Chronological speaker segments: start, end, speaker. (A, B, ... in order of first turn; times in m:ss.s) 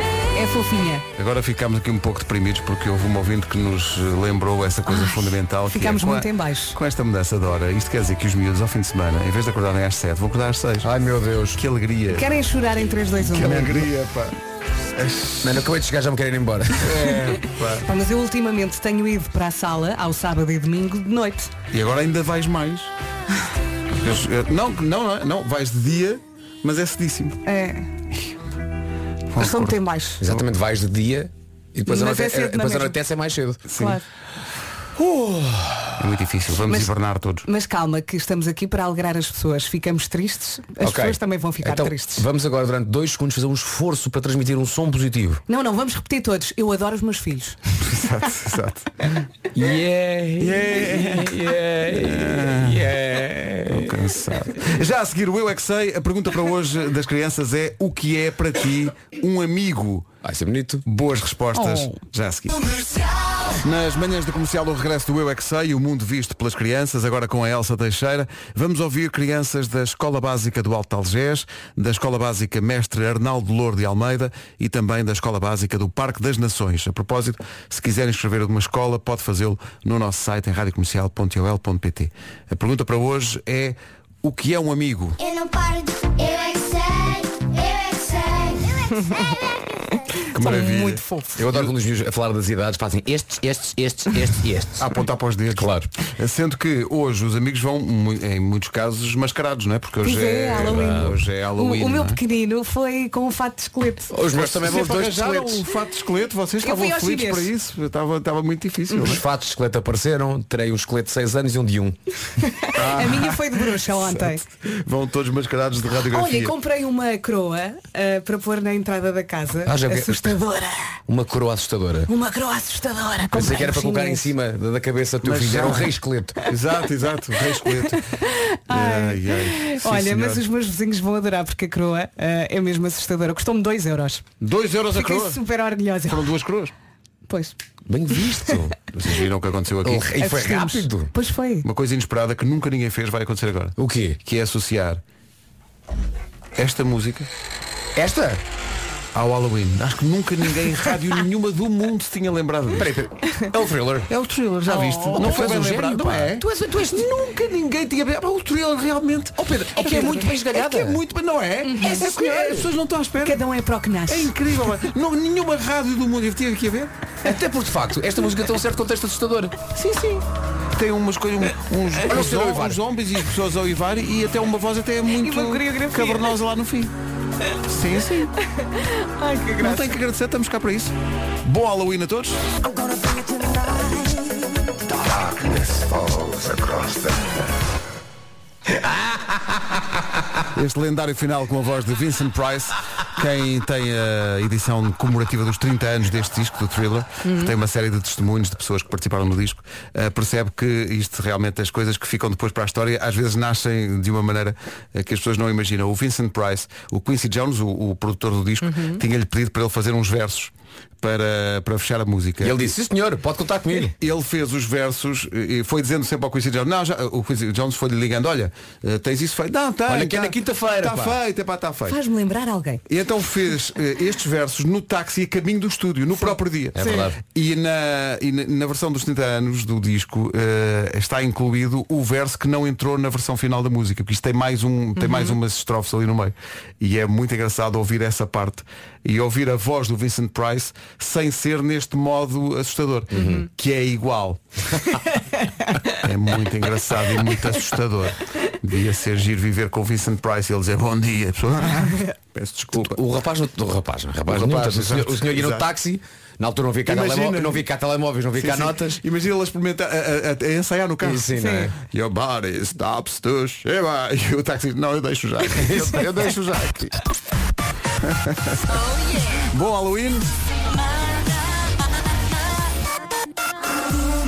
0:00.3-0:01.0 A
0:01.1-0:10.9 B
0:04.9-0:06.8 A
0:10.8-0:11.6 C
0:11.6-0:12.3 B
0:12.1-0:13.9 A
0:13.2-0:14.4 B
0:14.9-0:15.6 B
0:15.4-0:17.1 C
0:16.8-0:17.9 B
0:17.7-0:21.5 A
0:21.7-0:22.9 B
0:24.0-0:27.4 B
0:27.4-0:27.9 A
0:29.3-0:30.4 B
0:29.4-0:30.2 A
0:30.2-0:33.7 C
0:31.9-0:33.0 A
0:33.7-0:34.0 B
0:33.7-0:34.0 A
0:35.0-0:36.0 C
0:36.0-0:37.5 B
0:36.6-0:36.9 A
0:37.4-0:42.3 A
0:40.8-0:45.4 C
0:45.5-0:47.6 A
0:47.8-0:48.9 B
0:49.5-0:54.0 C
0:50.4-0:52.8 B
0:53.7-1:00.1 B
1:00.2-1:00.8 C
1:00.9-1:02.6 B
1:01.5-1:02.0 A
1:03.6-1:25.2 B
1:25.2-1:29.4 D
1:30.3-1:31.7 B
1:30.4-1:31.3 A
1:31.4-1:34.9 C
1:34.8-1:42.2 B
1:35.6-1:35.9 C
1:40.0-1:44.1 A
1:44.1-1:45.6 C
1:44.3-1:49.2 B
1:46.6-1:47.5 A
1:49.0-1:52.0 C
1:52.5-1:54.4 A
1:52.7-1:56.5 B
1:56.0-2:01.0 A
1:59.6-2:00.4 C
2:01.1-2:02.1 C
2:02.1-2:04.3 A
2:03.3-2:06.4 C
2:05.2-2:05.9 B
2:06.4-2:08.0 B
2:07.5-2:14.2 A
2:08.7-2:10.4 B
2:14.4-2:15.4 B
2:14.9-2:16.2 A
2:16.0-2:16.7 B
2:17.3-2:17.5 A
2:17.9-2:18.8 C
2:18.9-2:20.1 B
2:19.8-2:21.1 C
2:20.2-2:21.6 A
2:21.6-2:25.0 B
2:23.8-2:24.2 C
2:26.6-2:27.3 B
2:27.9-2:28.4 C
2:29.1-2:32.9 B
2:32.8-2:34.1 C
2:34.1-2:43.4 B
2:34.6-2:37.0 C
2:35.1-2:35.4 A
2:39.4-2:41.0 C
2:41.6-2:42.6 A
2:43.2-2:44.4 A
2:44.1-2:46.9 B
2:47.2-2:49.6 C
2:49.8-2:50.2 B
2:50.8-2:56.9 B
2:52.0-2:52.8 C
2:55.1-2:56.4 A
2:57.7-2:58.3 B
2:58.8-3:00.0 A
2:59.6-3:00.9 B
3:01.4-3:02.4 B
3:05.8-3:06.6 C
3:10.5-3:30.5 B
3:17.2-3:17.5 A
3:28.6-3:29.0 A
3:31.0-3:32.7 B
3:32.4-3:33.9 C
3:34.0-3:42.0 B
3:39.9-3:41.2 C
3:41.9-3:42.8 A
3:42.9-4:04.4 B
3:46.8-3:47.2 C
3:55.0-3:55.4 A
4:03.1-4:03.5 C
4:06.0-4:13.0 B
4:12.7-4:19.0 C
4:14.3-4:15.7 B
4:16.9-4:17.6 B
4:18.4-4:21.2 B
4:21.0-4:21.7 C
4:21.4-4:21.7 A
4:21.8-4:27.0 B
4:25.6-4:26.0 C
4:28.0-4:28.8 B
4:29.5-4:30.2 B